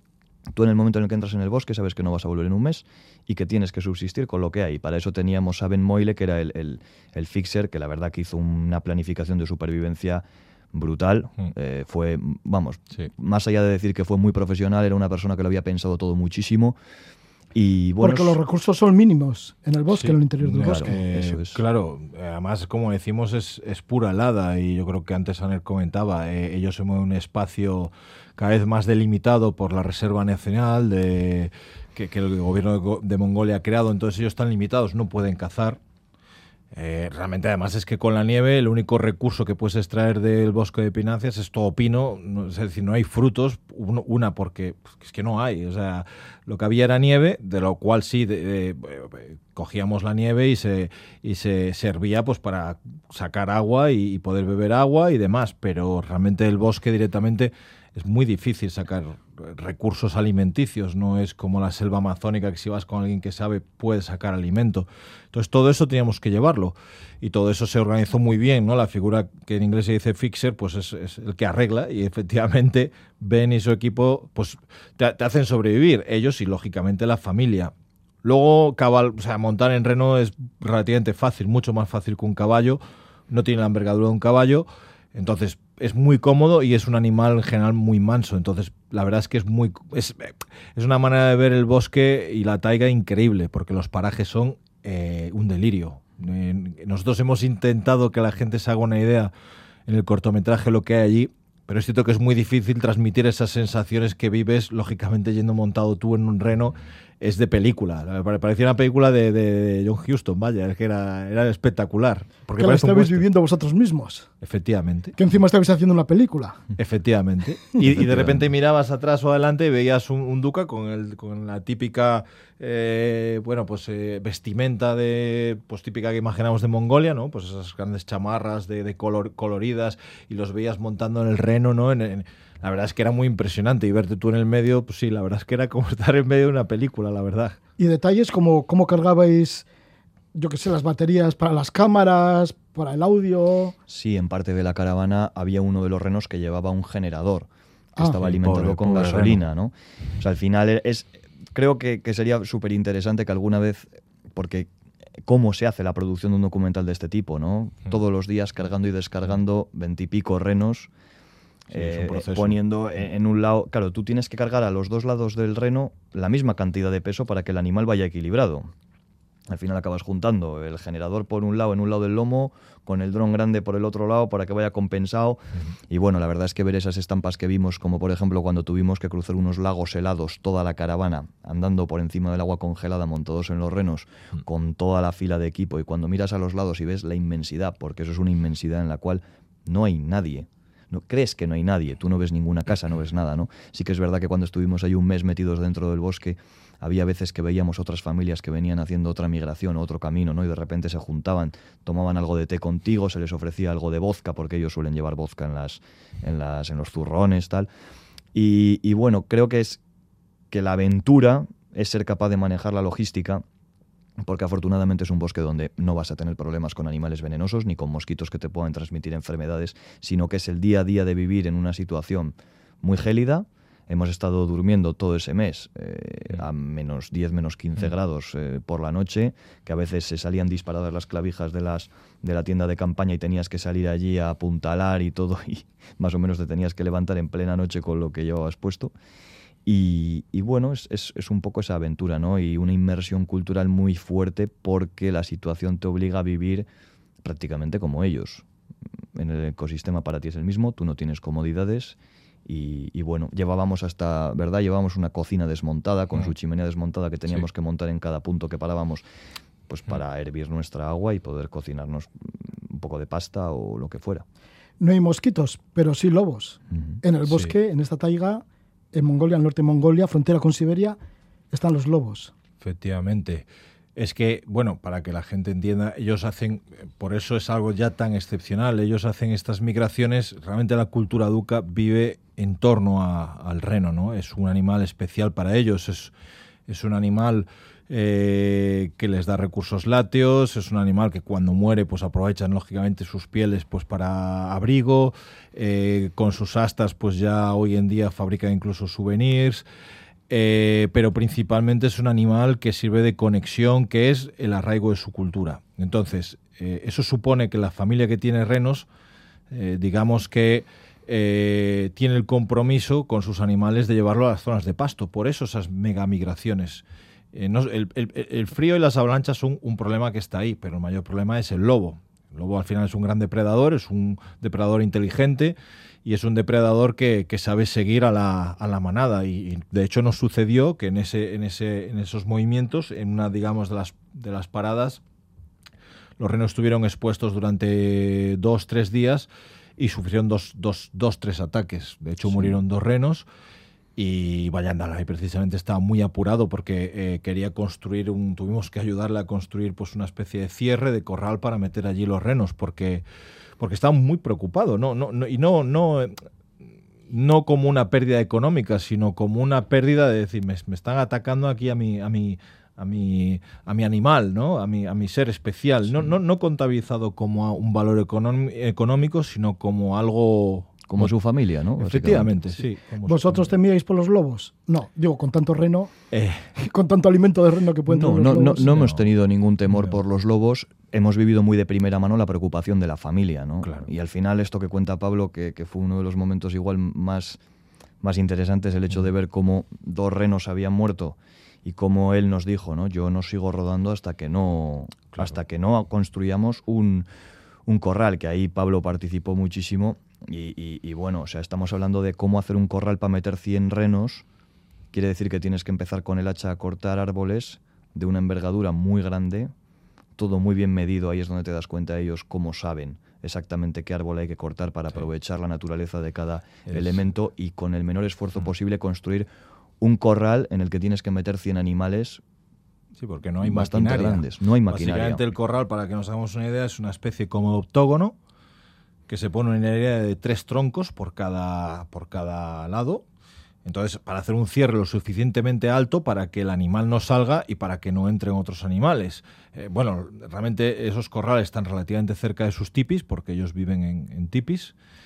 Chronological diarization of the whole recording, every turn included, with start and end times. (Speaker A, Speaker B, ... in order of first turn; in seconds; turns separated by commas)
Speaker A: 0.5-16.8, Speaker A: 17.5-18.4, Speaker B: 18.0-21.0, Speaker C: 19.9-35.8, Speaker A: 20.6-21.6, Speaker C: 36.7-77.7, Speaker C: 78.2-99.3, Speaker C: 99.9-113.2, Speaker B: 112.6-114.3, Speaker C: 114.4-115.2, Speaker B: 115.2-116.6, Speaker C: 116.8-137.6, Speaker A: 117.9-118.4, Speaker B: 137.8-139.7, Speaker B: 140.3-143.7, Speaker A: 143.9-154.7, Speaker C: 148.2-149.4, Speaker A: 155.2-160.9, Speaker C: 161.7-162.6, Speaker A: 161.7-168.7, Speaker A: 169.5-207.7, Speaker A: 208.3-209.8, Speaker A: 210.5-213.4, Speaker A: 214.2-238.9, Speaker A: 239.7-246.7, Speaker A: 247.2-248.4, Speaker A: 249.1-259.0, Speaker A: 259.7-264.2, Speaker B: 264.8-271.0, Speaker A: 266.7-267.0, Speaker C: 267.3-267.5, Speaker B: 271.5-272.3, Speaker C: 272.6-286.1, Speaker C: 286.7-299.6, Speaker C: 300.3-308.9, Speaker C: 309.5-335.0, Speaker C: 336.2-343.3, Speaker C: 343.9-353.0, Speaker C: 353.6-356.2, Speaker C: 357.1-371.1, Speaker A: 370.9-372.4, Speaker C: 371.8-373.5, Speaker B: 373.1-375.9, Speaker C: 376.1-376.5, Speaker B: 376.6-378.9, Speaker A: 377.9-387.4, Speaker C: 379.7-380.0, Speaker C: 383.6-383.9, Speaker A: 388.0-397.1, Speaker C: 395.1-395.4, Speaker A: 397.7-404.2, Speaker A: 404.9-409.5, Speaker A: 410.2-419.3, Speaker C: 416.6-417.1, Speaker A: 419.8-422.2, Speaker C: 423.0-428.1, Speaker A: 423.4-425.2, Speaker C: 429.1-433.0, Speaker C: 433.6-444.7